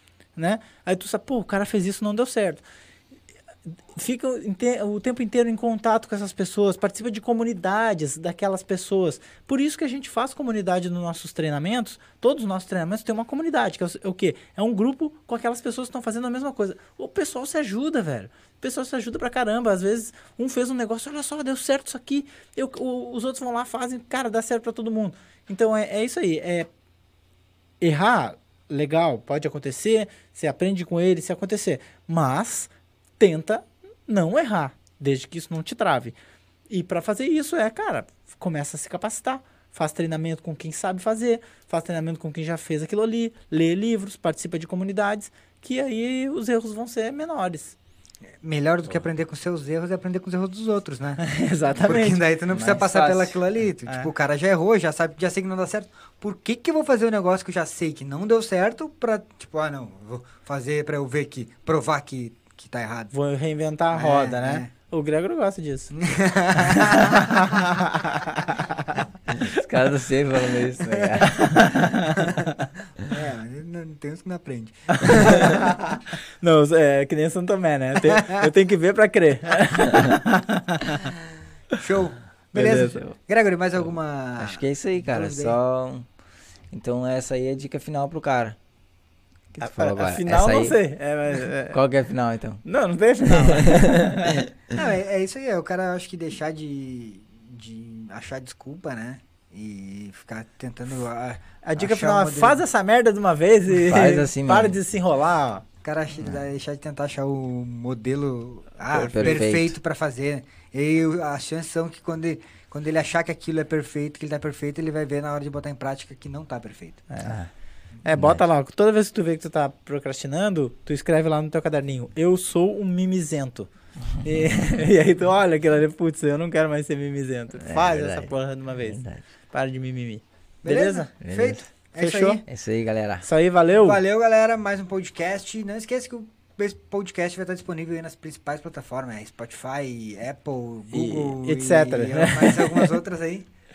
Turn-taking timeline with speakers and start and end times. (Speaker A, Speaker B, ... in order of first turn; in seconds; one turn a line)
Speaker A: 0.4-2.6
Speaker A: 4.0-26.7
Speaker A: 27.8-36.2
Speaker A: 36.7-47.8
Speaker B: 48.4-63.1
Speaker A: 51.2-53.3
Speaker C: 52.5-53.2
Speaker A: 63.1-66.0
Speaker B: 63.9-64.7
Speaker B: 65.9-67.6
Speaker A: 66.5-69.5
Speaker C: 69.3-72.0
Speaker B: 70.9-71.3
Speaker A: 71.3-72.7
Speaker B: 72.2-75.7
Speaker A: 74.9-81.1
Speaker B: 78.0-78.4
Speaker B: 81.8-85.6
Speaker A: 82.5-83.0
Speaker C: 83.8-86.1
Speaker C: 86.7-88.6
Speaker C: 89.5-90.8
Speaker A: 89.6-91.8
Speaker C: 91.7-92.6
Speaker A: 92.7-94.4
Speaker C: 93.2-94.8
Speaker B: 94.7-102.6
Speaker A: 101.6-105.6
Speaker C: 103.8-104.8
Speaker B: 105.8-117.1
Speaker C: 108.9-109.8
Speaker A: 117.1-117.4
Speaker C: 117.2-117.5
Speaker A: 118.0-131.1
Speaker C: 118.1-118.4
Speaker C: 127.6-129.2
Speaker B: 130.6-132.4
Speaker C: 131.2-131.6
Speaker A: 132.0-132.4
Speaker C: 132.5-133.2
Speaker A: 133.2-134.0
Speaker B: 133.8-143.5
Speaker A: 140.9-142.9